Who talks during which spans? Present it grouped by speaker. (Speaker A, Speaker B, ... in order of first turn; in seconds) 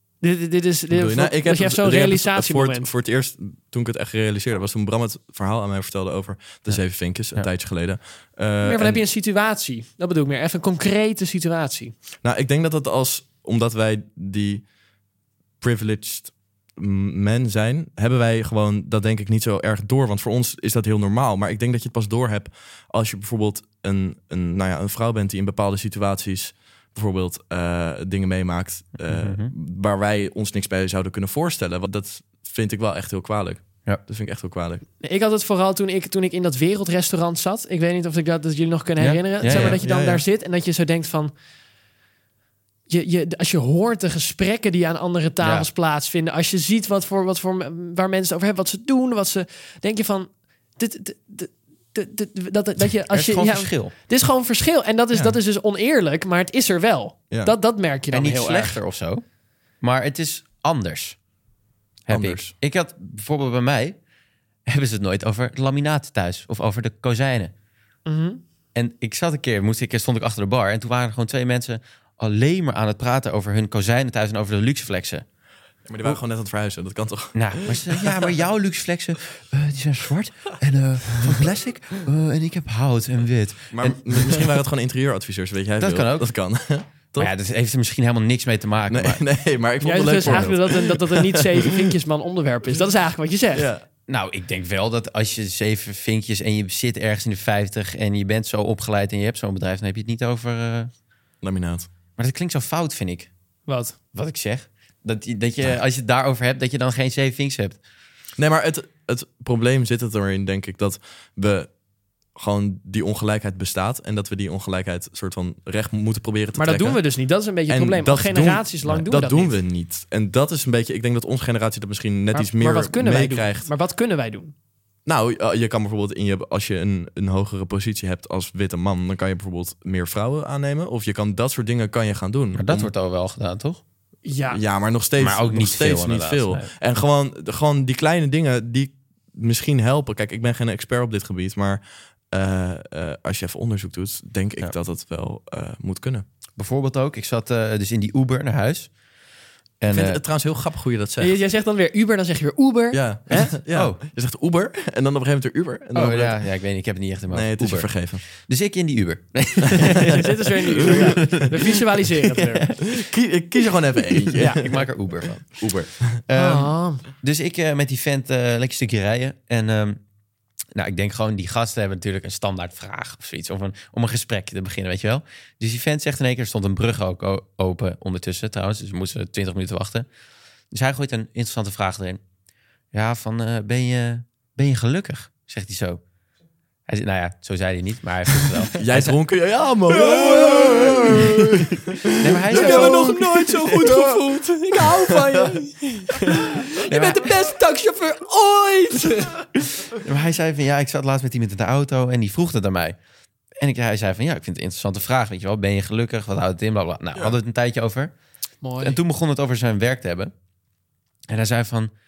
Speaker A: 0.2-2.9, 8.6-11.9, 35.0-41.3, 42.9-58.8, 68.1-68.4, 89.8-93.7, 103.7-104.0, 116.6-119.6, 122.3-124.5, 134.2-134.6, 151.2-153.5, 160.1-162.7, 166.3-167.0, 189.9-191.0, 192.5-199.3, 208.6-209.0
Speaker B: 0.9-9.0, 12.2-14.7, 15.6-34.8, 39.4-40.2, 62.1-62.5, 75.9-78.4, 83.7-87.3, 88.9-91.8, 93.5-93.8, 101.4-101.9, 108.4-111.7, 112.3-117.0, 117.7-123.7, 125.1-132.9, 134.5-146.2, 149.9-151.4, 152.9-156.4, 157.3-158.2, 162.9-164.9, 165.5-166.2, 188.8-195.5
Speaker C: 6.7-7.5, 29.0-29.5, 39.0-39.8, 45.4-45.7, 53.1-53.9, 58.1-59.2, 59.8-61.2, 62.1-64.0, 64.7-67.5, 68.8-75.2, 77.3-84.5, 85.8-86.3, 87.2-89.2, 94.1-100.9, 102.2-103.3, 104.1-107.8, 132.6-133.8, 135.2-136.7, 146.6-148.9, 149.8-150.2, 153.4-154.0, 155.9-163.0, 164.3-165.7, 166.3-170.0, 170.8-180.1, 180.7-182.2, 182.9-186.0, 186.9-189.2, 192.2-193.2, 196.9-197.3, 199.9-203.0, 203.6-208.1, 208.8-210.3, 211.3-211.9